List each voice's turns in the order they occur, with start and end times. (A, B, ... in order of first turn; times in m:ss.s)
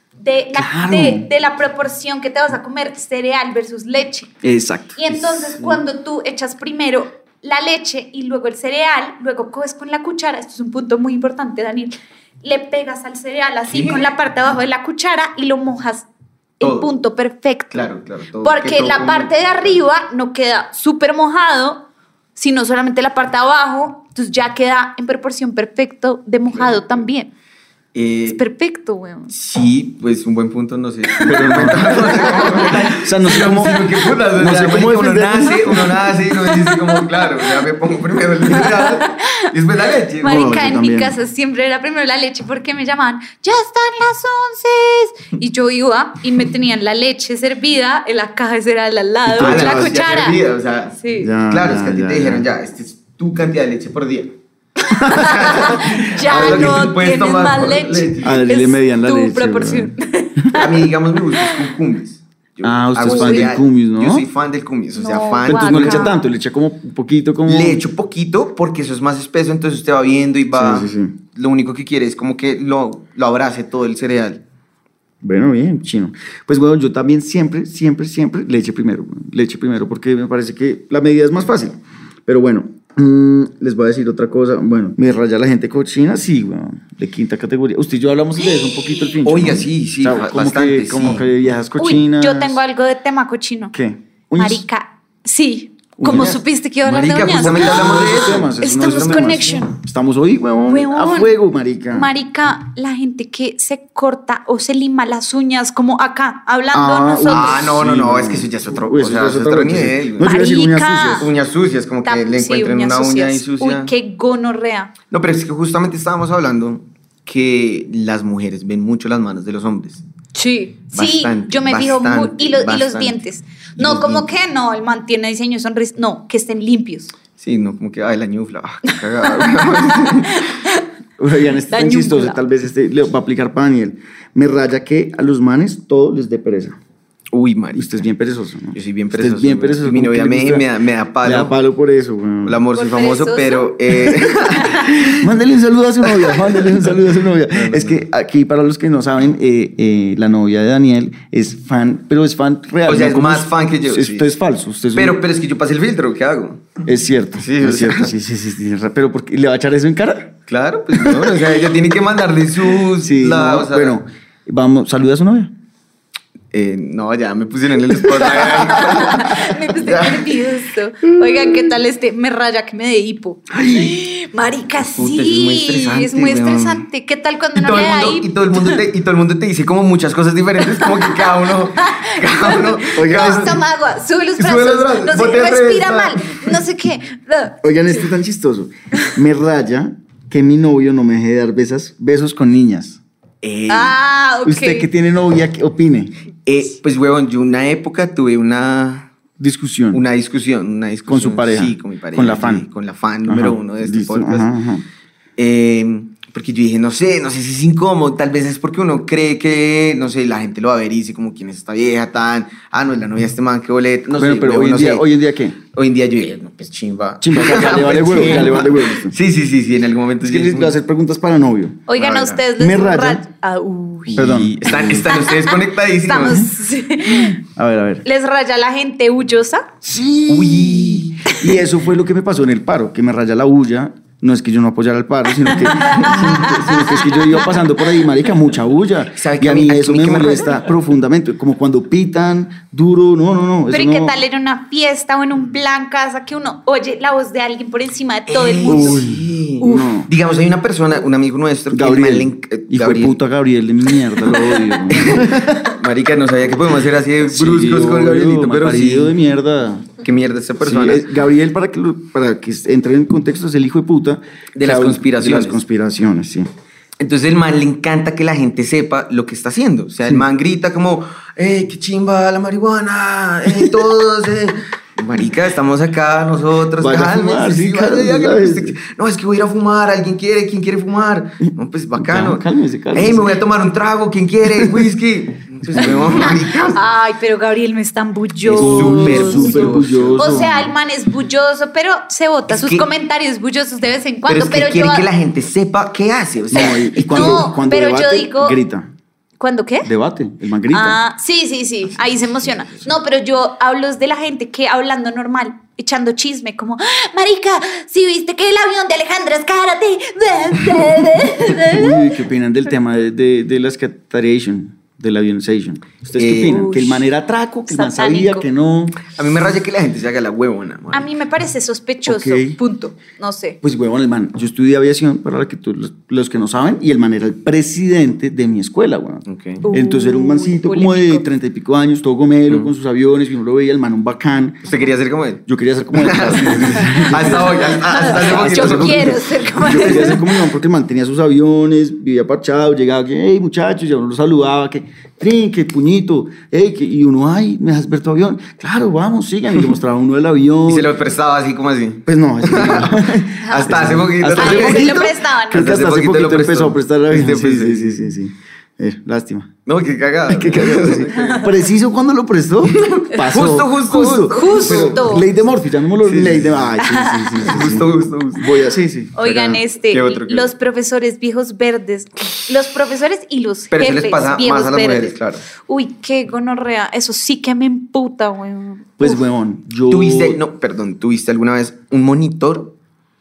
0:00.2-0:04.3 A
0:00.5-0:01.3 B
0:04.4-0:05.7 B
0:05.0-0:16.1 A
0:13.7-0:14.1 C
0:16.6-0:17.9 A
0:16.6-0:16.9 C
0:17.7-0:19.7 C
0:18.4-0:27.3 A
0:27.9-0:28.4 C
0:28.3-0:29.3 A
0:29.3-0:40.6 C
0:31.2-0:36.0 B
0:32.2-0:32.7 A
0:36.4-0:37.5 A
0:38.5-0:39.5 A
0:40.2-0:50.4 A
0:40.2-0:41.1 B
0:49.2-0:49.9 B
0:49.4-0:54.4 C
0:51.0-0:51.3 A
0:51.2-0:52.4 B
0:54.8-1:01.7 A
0:55.0-0:55.3 B
0:55.2-0:58.5 C
0:56.2-0:56.9 B
0:58.2-1:00.5 B
1:00.6-1:06.1 C
1:02.6-1:04.2 B
1:03.0-1:03.5 A
1:04.9-1:06.2 A
1:05.4-1:07.8 B
1:07.4-1:14.4 C
1:10.5-1:11.2 B
1:15.2-1:32.6 B
1:28.6-1:29.1 A
1:29.2-1:31.2 C
1:31.8-1:33.7 A
1:33.7-1:34.6 B
1:34.4-1:39.7 A
1:36.0-1:36.4 B
1:36.1-1:39.6 C
1:37.3-1:42.1 B
1:40.7-1:41.3 A
1:41.9-1:47.6 A
1:46.7-1:51.3 B
1:47.2-1:50.4 C
1:50.2-1:51.3 A
1:51.2-1:53.9 C
1:52.0-1:54.9 A
1:55.1-2:00.0 C
2:00.3-2:07.1 A
2:00.9-2:03.2 C
2:03.8-2:04.3 C
2:07.4-2:10.4 C
2:08.9-2:10.8 A
2:11.2-2:16.8 B
2:11.7-2:12.4 A
2:17.3-2:18.0 C
2:17.7-2:20.7 B
2:18.7-2:21.6 C
2:21.2-2:22.6 B
2:22.4-2:25.2 C
2:22.7-2:24.9 A
2:25.1-2:35.2 B
2:26.3-2:26.8 C
2:27.5-2:28.0 C
2:32.8-2:34.3 C
2:34.9-2:36.8 C
2:36.8-2:40.3 B
2:37.4-2:38.1 C
2:40.5-2:44.0 C
2:41.0-2:41.4 B
2:43.0-2:45.5 B
2:46.5-2:50.2 C
2:48.0-2:49.0 B
2:48.6-2:58.8 A
2:53.5-2:53.9 B
2:54.8-2:56.8 C
2:57.5-3:03.6 C
3:00.7-3:08.0 A
3:02.9-3:03.6 B
3:04.4-3:06.6 C
3:07.6-3:13.0 B
3:13.4-3:14.0 C
3:13.7-3:14.9 A
3:14.4-3:16.2 B
3:16.4-3:19.1 C
3:19.4-3:20.0 B
3:19.9-3:24.5 C
3:21.1-3:22.6 B
3:23.2-3:24.8 B
3:25.4-3:35.1 C
3:34.1-3:35.6 B
3:35.7-3:40.7 C
3:37.2-3:39.2 B
3:40.2-3:41.9 B
3:41.9-3:44.3 A
3:42.0-3:42.4 C
3:42.6-3:43.2 B
3:44.1-3:46.5 C
3:44.1-3:45.1 B
3:45.1-3:47.4 A
3:47.1-3:48.0 B
3:48.0-3:49.7 A
3:49.8-4:04.2 B
3:50.3-3:51.5 C
3:55.5-3:57.5 A
3:59.1-4:00.7 C
4:03.7-4:09.0 A
4:08.3-4:13.2 C
4:08.6-4:10.1 B
4:09.6-4:09.9 A
4:11.7-4:15.8 B
4:14.9-4:19.1 C
4:17.2-4:19.9 B
4:20.0-4:21.0 C
4:20.6-4:26.5 B
4:24.5-4:25.6 C
4:27.0-4:46.8 C
4:36.8-4:38.8 B
4:42.0-4:43.4 B
4:44.5-4:44.9 B
4:45.6-4:46.3 B
4:45.8-4:55.0 A
4:48.4-4:50.5 C
4:48.5-4:50.7 B
4:52.5-4:52.9 C
4:54.3-4:57.5 C
4:56.5-4:58.9 B
4:56.6-4:58.6 A
4:59.4-4:59.9 A
4:59.8-5:01.0 B
5:00.7-5:12.2 A
5:02.1-5:02.8 C
5:11.6-5:19.0 B
5:16.2-5:16.8 C
5:16.5-5:17.0 A
5:17.7-5:18.4 A
5:19.1-5:21.1 C
5:20.9-5:23.6 A
5:22.0-5:22.6 B
5:23.6-5:34.7 B
5:29.3-5:29.6 C
5:29.6-5:31.2 A
5:34.6-5:35.4 C
5:35.5-5:50.9 B
5:35.9-5:39.2 C
5:37.6-5:40.4 A
5:50.7-5:58.0 C
5:52.0-5:59.5 B
5:53.4-5:53.8 A
5:54.3-5:55.6 A
5:59.6-6:01.5 C
6:00.3-6:09.6 B
6:01.1-6:01.5 A
6:02.7-6:05.3 C
6:03.9-6:05.3 A
6:06.0-6:06.7 C
6:06.8-6:07.6 A
6:07.4-6:08.5 C
6:09.2-6:19.2 A
6:09.9-6:10.5 C
6:13.7-6:15.4 C
6:19.0-6:20.4 B
6:19.9-6:22.7 C